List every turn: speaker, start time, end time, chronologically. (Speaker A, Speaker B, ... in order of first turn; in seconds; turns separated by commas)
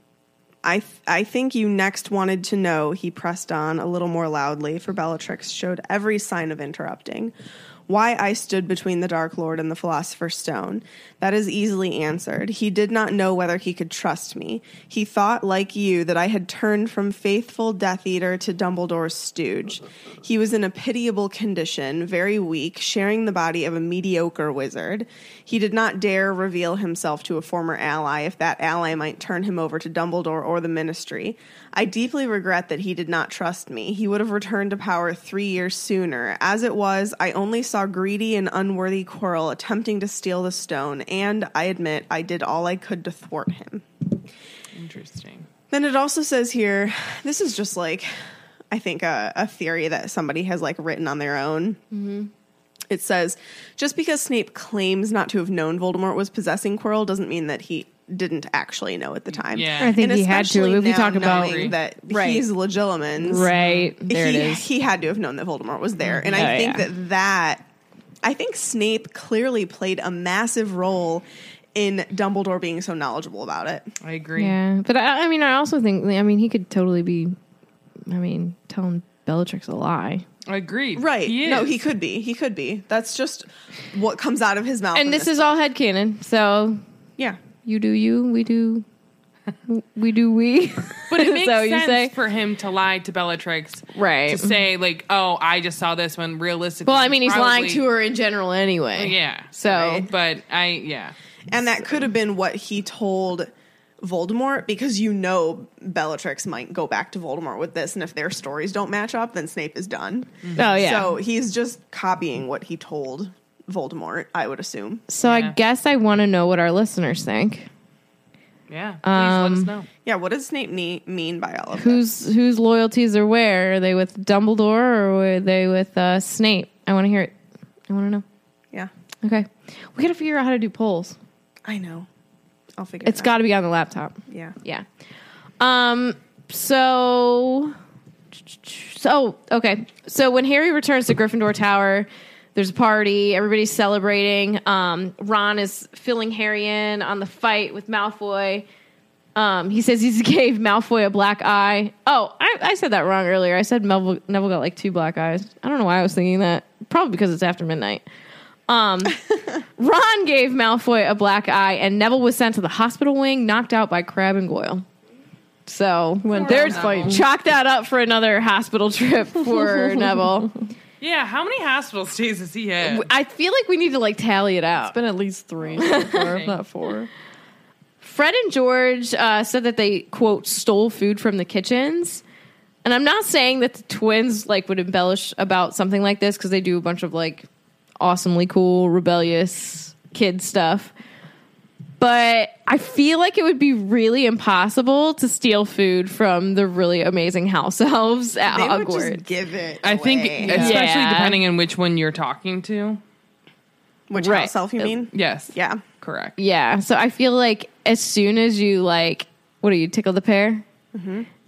Speaker A: 0.6-7.3, Speaker A: 7.9-43.9, Speaker B: 44.7-45.5, Speaker A: 45.7-48.2, Speaker A: 48.7-51.8, Speaker C: 51.9-52.3, Speaker A: 52.9-63.5, Speaker B: 59.5-60.0, Speaker C: 59.8-62.5, Speaker B: 61.2-61.8, Speaker C: 63.2-64.7, Speaker B: 63.5-63.9, Speaker A: 64.1-67.6, Speaker B: 66.0-66.5, Speaker C: 66.3-66.8, Speaker A: 68.2-73.9, Speaker B: 74.0-74.5, Speaker C: 74.4-77.3, Speaker C: 78.1-80.2, Speaker B: 80.5-81.8, Speaker A: 80.9-85.6, Speaker C: 84.9-86.8, Speaker C: 87.6-88.8, Speaker C: 89.7-92.1, Speaker B: 91.1-97.8, Speaker C: 93.9-94.5, Speaker C: 96.8-100.1, Speaker B: 99.0-101.2, Speaker A: 99.7-100.0, Speaker A: 101.5-115.0, Speaker C: 110.5-111.1, Speaker C: 115.1-117.7, Speaker B: 115.2-115.6, Speaker B: 118.7-119.9, Speaker C: 119.0-119.7, Speaker A: 120.0-122.0, Speaker C: 121.7-127.3, Speaker C: 127.9-128.2, Speaker C: 129.2-131.2, Speaker A: 131.6-132.1, Speaker A: 132.8-133.3, Speaker C: 133.0-134.8, Speaker A: 134.3-134.6, Speaker C: 135.6-137.8, Speaker C: 138.4-148.7, Speaker C: 149.3-158.0, Speaker C: 158.7-159.2, Speaker C: 159.8-164.8, Speaker C: 165.7-170.6, Speaker D: 166.2-167.2, Speaker B: 166.3-167.2, Speaker B: 171.0-173.1, Speaker C: 172.9-175.0, Speaker D: 174.8-177.1, Speaker B: 175.7-176.6, Speaker C: 175.8-176.3, Speaker C: 178.0-182.2, Speaker C: 182.8-187.5, Speaker C: 188.0-190.9, Speaker C: 192.0-199.2, Speaker A: 198.4-200.8, Speaker B: 199.8-203.0, Speaker C: 200.5-201.4, Speaker A: 204.1-205.8, Speaker C: 204.1-204.9, Speaker B: 205.1-206.4, Speaker C: 206.4-210.7, Speaker A: 210.9-211.3